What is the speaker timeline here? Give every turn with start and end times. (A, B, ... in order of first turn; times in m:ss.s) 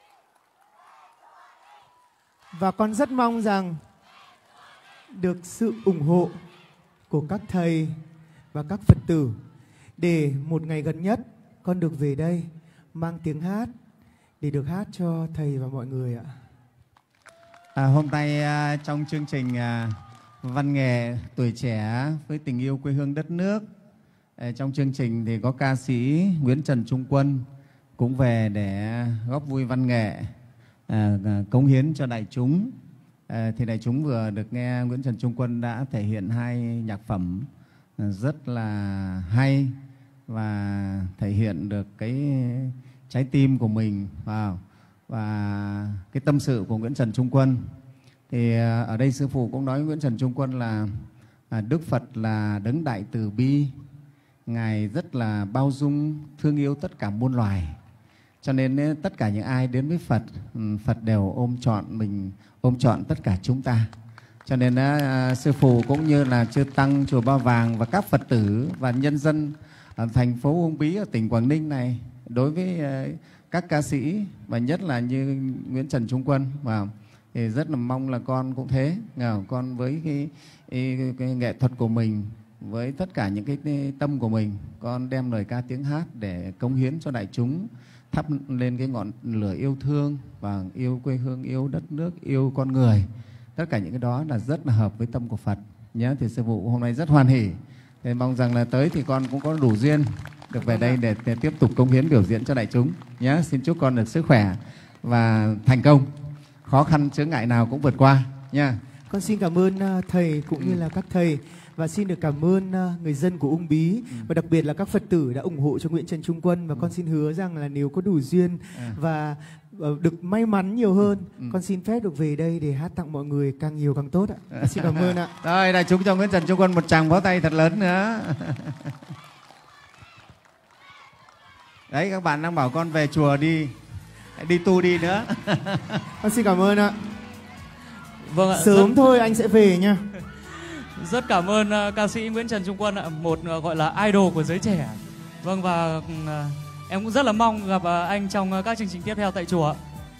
0:02.5-0:03.8 A
0:05.2-0:06.4 A
0:07.1-0:08.0 A
0:08.5-0:09.4 A
0:10.0-0:13.7 A
0:14.4-0:16.3 A
0:17.8-0:23.7 B
0:24.4-0:27.5 B
0:28.0-0:30.3 B
0:30.9-0:32.7 B
0:33.3-0:47.6 B
0:48.3-0:53.7 B
0:54.5-0:57.8 B
0:58.4-1:03.9 B
1:04.5-1:46.1 B
1:46.6-1:48.8 B
1:49.1-2:05.3 A
1:50.5-1:50.8 B
2:04.6-2:08.9 B
2:11.9-2:13.8 B
2:14.4-2:16.0 B
2:16.2-2:17.0 A
2:18.2-2:18.9 C
2:18.5-2:20.0 A
2:21.0-2:29.8 C